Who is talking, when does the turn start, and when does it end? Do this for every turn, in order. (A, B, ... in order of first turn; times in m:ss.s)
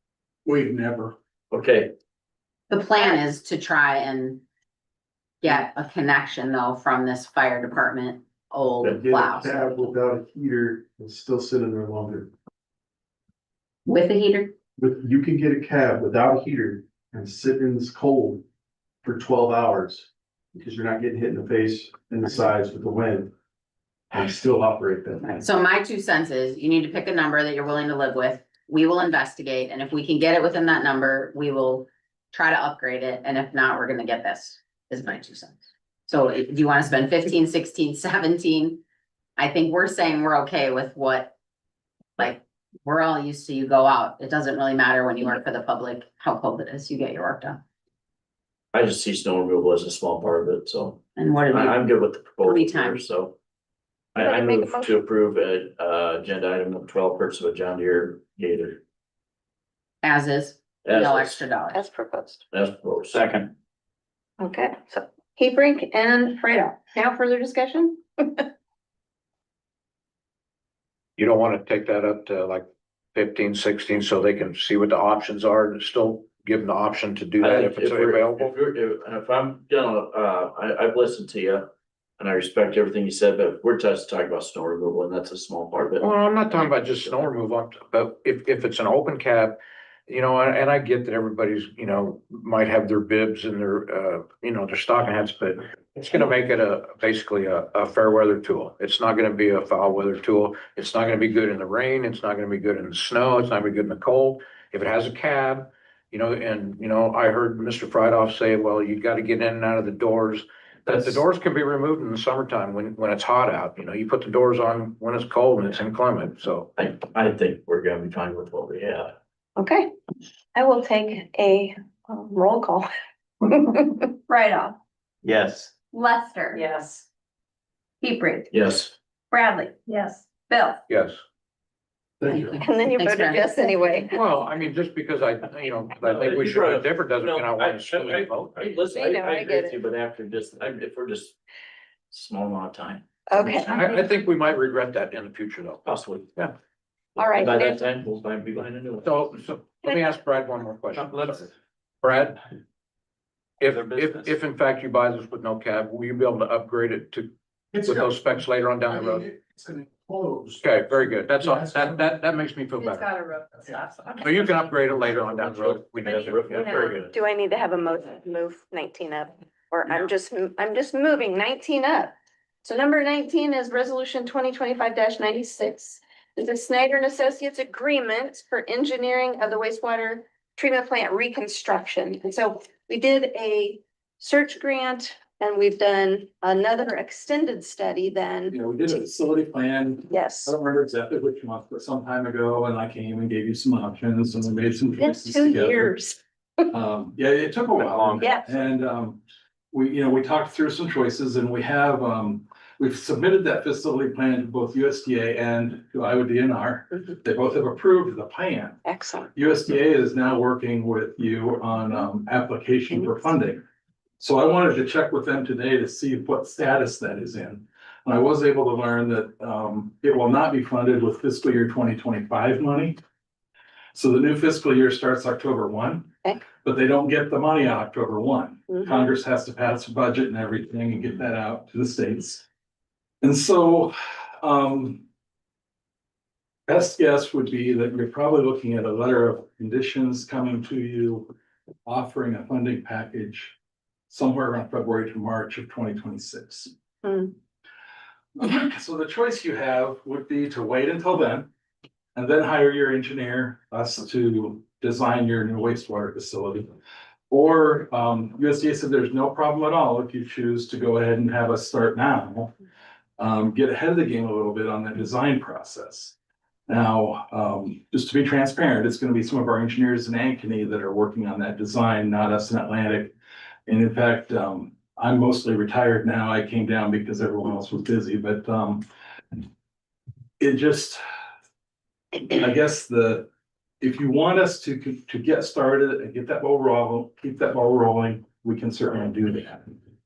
0:00.4-0:01.2 A
0:01.5-0:01.9 B
0:02.7-0:04.4 C
0:05.4-0:09.9 C
0:08.8-0:12.3 D
0:13.8-0:14.5 C
0:14.8-0:18.4 D
0:19.0-0:23.3 D
0:24.1-0:25.4 D
0:25.3-0:38.8 C
0:39.4-0:41.3 C
0:42.2-0:47.6 C
0:48.7-0:53.3 B
0:51.2-0:53.0 C
0:54.1-0:58.8 B
0:54.2-0:55.0 E
1:00.0-1:01.8 C
1:00.8-1:01.4 B
1:01.7-1:02.4 E
1:02.5-1:03.2 B
1:03.1-1:03.5 F
1:04.4-1:08.5 E
1:11.2-1:18.5 G
1:17.4-1:21.7 B
1:22.2-1:27.3 B
1:26.0-1:56.7 G
1:50.9-1:51.2 B
1:56.8-1:59.1 B
1:59.6-1:59.9 E
2:00.5-2:02.9 E
2:03.4-2:04.6 E
2:05.2-2:05.7 F
2:06.0-2:06.7 E
2:08.5-2:08.9 B
2:09.3-2:09.7 E
2:09.9-2:10.5 H
2:10.5-2:10.7 E
2:10.9-2:11.2 G
2:12.2-2:14.0 C
2:12.6-2:14.2 E
2:14.1-2:18.7 G
2:16.0-2:21.4 B
2:18.9-2:19.8 E
2:22.1-2:23.0 B
2:23.3-2:23.9 E
2:23.4-2:25.8 G
2:25.8-2:26.4 B
2:27.2-2:29.3 B
2:27.2-2:27.8 E
2:29.0-2:31.5 G
2:29.8-2:30.1 E
2:31.0-2:31.3 F
2:32.0-2:32.4 G
2:33.6-2:39.3 G
2:33.6-2:34.3 F
2:40.6-2:43.1 G
2:42.8-2:44.1 H
2:44.2-2:46.6 G
2:45.0-2:47.2 B
2:46.5-2:46.9 H
2:46.7-3:08.5 E
3:08.5-3:15.9 A
3:10.1-3:10.6 E
3:15.0-3:16.2 E
3:16.7-3:19.2 A
3:17.7-3:18.2 F
3:18.2-3:18.6 E
3:19.7-3:28.8 A
3:28.8-3:29.3 E
3:29.3-3:33.6 A
3:34.2-3:43.0 A
3:43.9-3:52.4 A
3:48.7-3:49.0 E
3:53.2-3:55.0 A
3:56.7-4:01.3 A
4:01.8-4:03.6 A
4:04.1-4:06.7 A
4:07.0-4:07.3 E
4:08.4-4:11.5 A
4:12.1-4:16.7 A
4:17.3-4:22.5 A
4:23.2-4:26.1 A
4:26.7-4:33.1 A
4:33.7-4:38.8 A
4:40.4-4:41.0 A
4:42.3-4:43.3 A
4:43.8-4:49.7 A